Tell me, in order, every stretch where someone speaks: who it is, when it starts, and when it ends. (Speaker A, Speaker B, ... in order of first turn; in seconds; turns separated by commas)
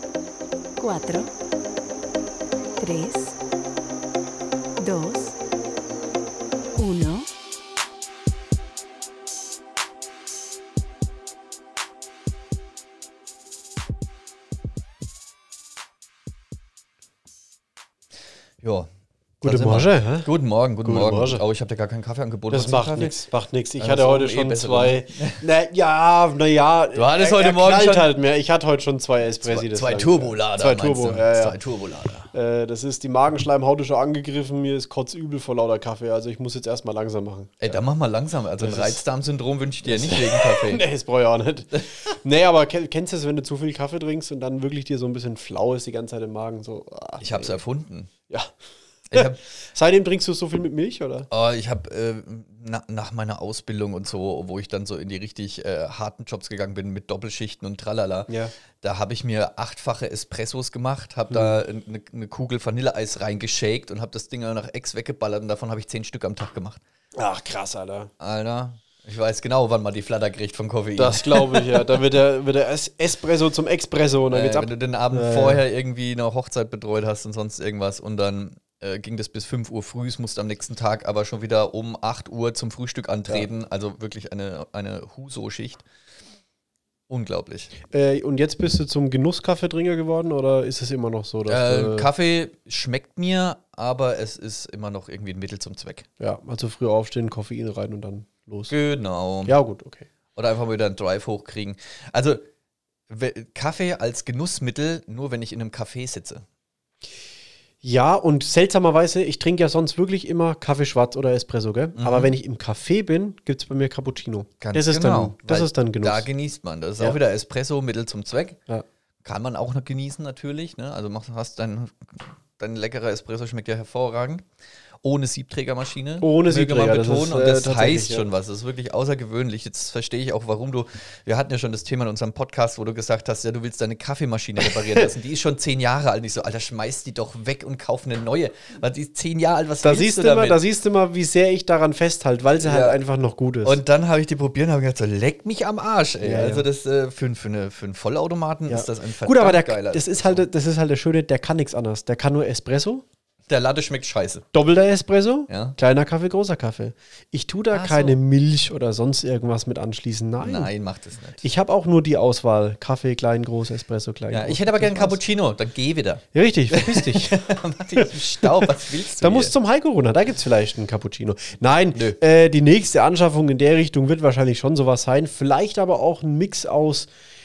Speaker A: 0.8-1.3, Speaker A: 2.8-3.4, Speaker A: 4.8-5.4, Speaker A: 6.8-7.3, Speaker B: 18.6-18.9, Speaker B: 19.4-23.2, Speaker C: 19.4-20.3, Speaker C: 20.8-21.4, Speaker C: 22.5-31.6, Speaker B: 23.8-25.4, Speaker B: 26.9-28.1, Speaker B: 29.4-32.3, Speaker C: 32.3-37.8, Speaker B: 37.6-40.9, Speaker C: 38.6-39.0, Speaker C: 39.9-47.6, Speaker B: 47.2-48.1, Speaker B: 49.1-49.4, Speaker C: 49.1-51.3, Speaker B: 51.3-66.8, Speaker C: 58.3-58.5, Speaker C: 61.3-61.6, Speaker C: 67.2-68.1, Speaker B: 68.2-71.8, Speaker C: 71.0-75.6, Speaker B: 74.3-85.8, Speaker B: 87.1-87.7, Speaker C: 87.9-92.1, Speaker B: 91.5-96.1, Speaker C: 96.2-98.7, Speaker B: 98.7-99.5, Speaker C: 99.5-100.1, Speaker B: 100.3-102.5, Speaker B: 103.1-106.4, Speaker C: 107.8-116.3, Speaker B: 112.0-112.3, Speaker B: 114.6-118.6, Speaker B: 119.2-124.5, Speaker B: 125.0-140.6, Speaker C: 126.2-128.3, Speaker C: 134.6-135.1, Speaker C: 139.8-143.8, Speaker B: 142.6-143.0, Speaker B: 143.6-150.5, Speaker C: 146.2-146.7, Speaker C: 148.7-153.1, Speaker B: 153.5-154.5, Speaker C: 154.5-160.7, Speaker B: 155.5-155.8, Speaker B: 157.7-158.2, Speaker B: 160.4-161.5, Speaker C: 161.4-165.2, Speaker B: 164.3-169.5, Speaker C: 166.3-167.4, Speaker C: 167.9-177.1